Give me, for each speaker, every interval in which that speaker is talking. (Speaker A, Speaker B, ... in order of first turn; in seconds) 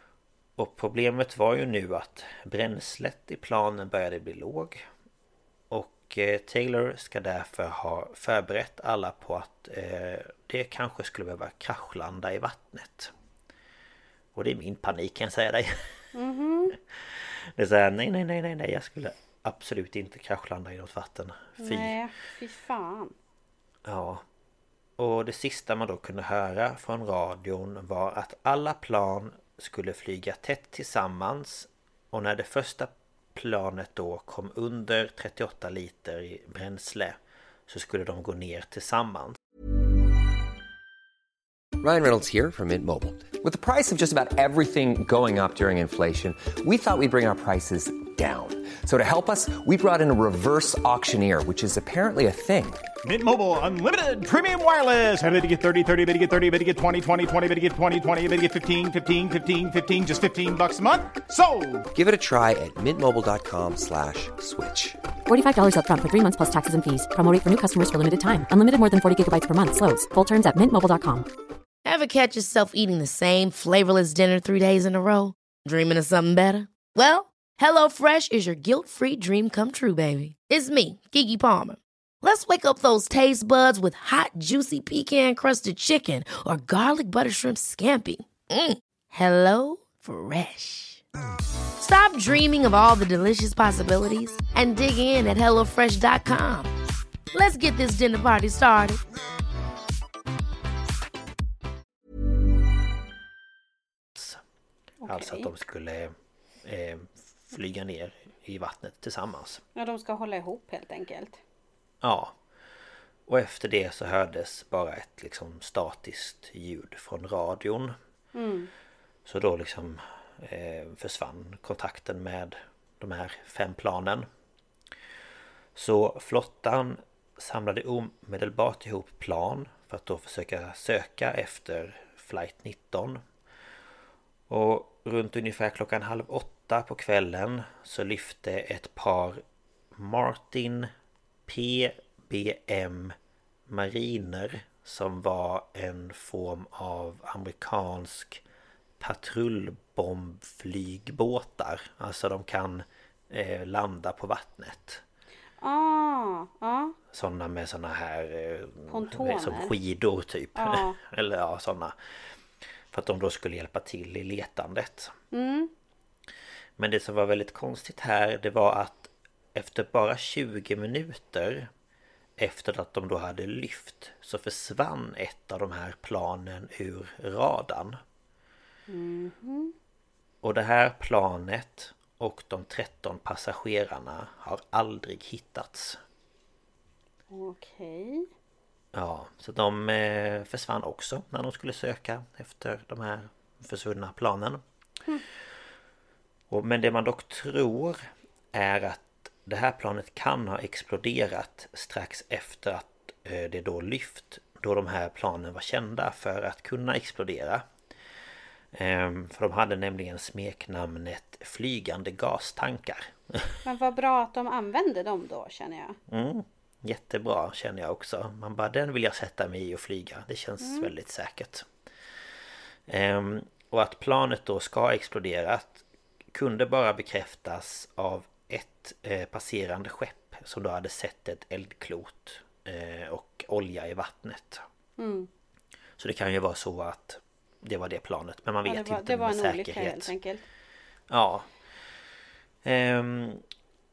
Speaker A: 0.6-4.8, 5.7-13.1, 14.3-15.9, 16.9-22.0, 23.9-24.2, 25.0-37.2, 37.7-39.4, 105.1-106.1, 106.6-109.6, 112.0-112.3, 113.3-117.9, 119.2-124.3, 125.7-133.2, 134.5-139.4, 139.9-140.9, 141.5-143.1, 143.7-148.4, 149.0-155.0, 157.1-161.9, 162.9-165.1, 166.8-171.7, 172.4-178.0, 180.4-186.0, 188.9-194.6, 196.5-207.6, 208.7-213.6, 216.1-221.7, 222.9-234.6, 236.0-240.1, 241.1-241.5, 242.6-243.4
Speaker B: 16.1-16.8, 21.6-23.1, 105.0-105.5, 109.8-111.4, 118.3-118.7, 155.6-156.9, 158.9-159.7, 160.6-161.0, 165.3-165.7, 178.9-179.7, 187.3-188.3, 213.6-216.0, 220.6-220.9, 235.0-235.3, 238.7-240.4
Speaker C: 41.8-52.8, 61.9-65.0
Speaker D: 53.0-61.9
Speaker E: 65.3-71.3
Speaker F: 71.8-91.0, 91.8-96.7, 97.3-99.0